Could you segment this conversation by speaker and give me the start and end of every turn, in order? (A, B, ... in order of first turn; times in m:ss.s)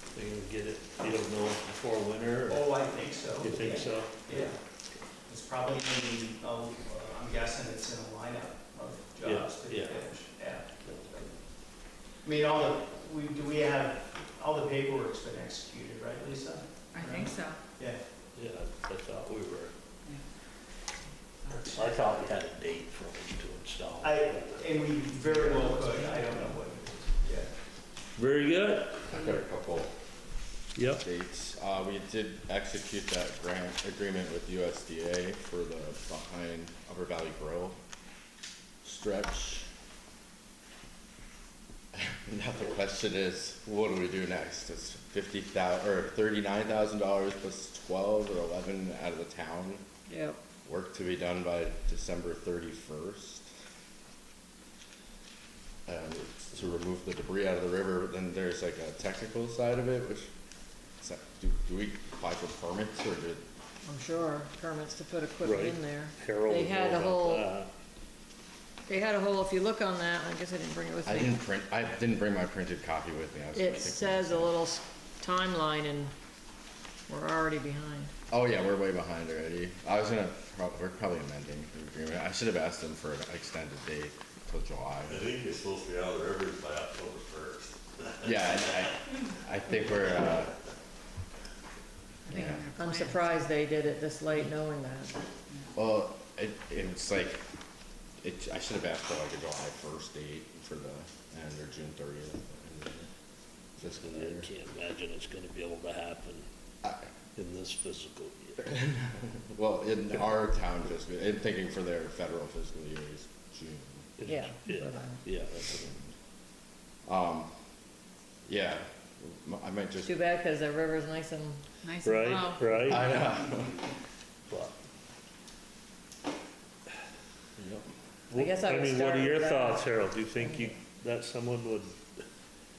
0:00.1-0:02.8 A
0:02.5-0:04.6 B
0:03.4-0:04.4 A
0:05.3-0:11.3 B
0:09.2-0:10.1 A
0:10.8-0:11.2 A
0:12.2-0:18.0 B
0:16.9-0:17.6 C
0:18.3-0:19.7 A
0:21.4-0:21.8 C
0:21.5-0:24.7 A
0:24.0-0:27.5 B
0:28.2-0:29.0 A
0:29.1-0:29.9 D
0:30.8-0:31.0 A
0:31.0-0:37.8 D
0:38.8-0:39.7 D
0:41.9-0:49.8 D
0:50.1-0:50.4 E
0:50.6-0:53.5 D
0:55.8-1:00.3 D
1:01.0-1:03.4 D
1:03.8-1:07.5 E
1:05.4-1:07.7 A
1:08.9-1:11.4 E
1:11.0-1:14.5 D
1:13.5-1:16.1 E
1:17.1-1:18.1 E
1:18.3-1:25.3 D
1:25.1-1:28.8 F
1:28.2-1:30.6 D
1:32.2-1:33.3 C
1:32.3-1:35.1 E
1:32.3-1:32.7 D
1:35.7-1:37.4 D
1:38.2-1:43.1 D
1:43.8-1:44.5 D
1:43.8-1:46.5 A
1:47.3-1:48.7 A
1:48.6-1:54.1 D
1:54.2-1:55.8 A
1:54.3-1:55.2 E
1:55.5-1:56.1 D
1:57.0-1:57.5 D
1:58.5-2:00.3 D
2:00.0-2:01.6 E
2:01.8-2:02.7 C
2:02.0-2:03.2 A
2:02.8-2:03.9 D
2:07.6-2:07.9 D
2:08.3-2:12.2 A
2:08.3-2:10.7 E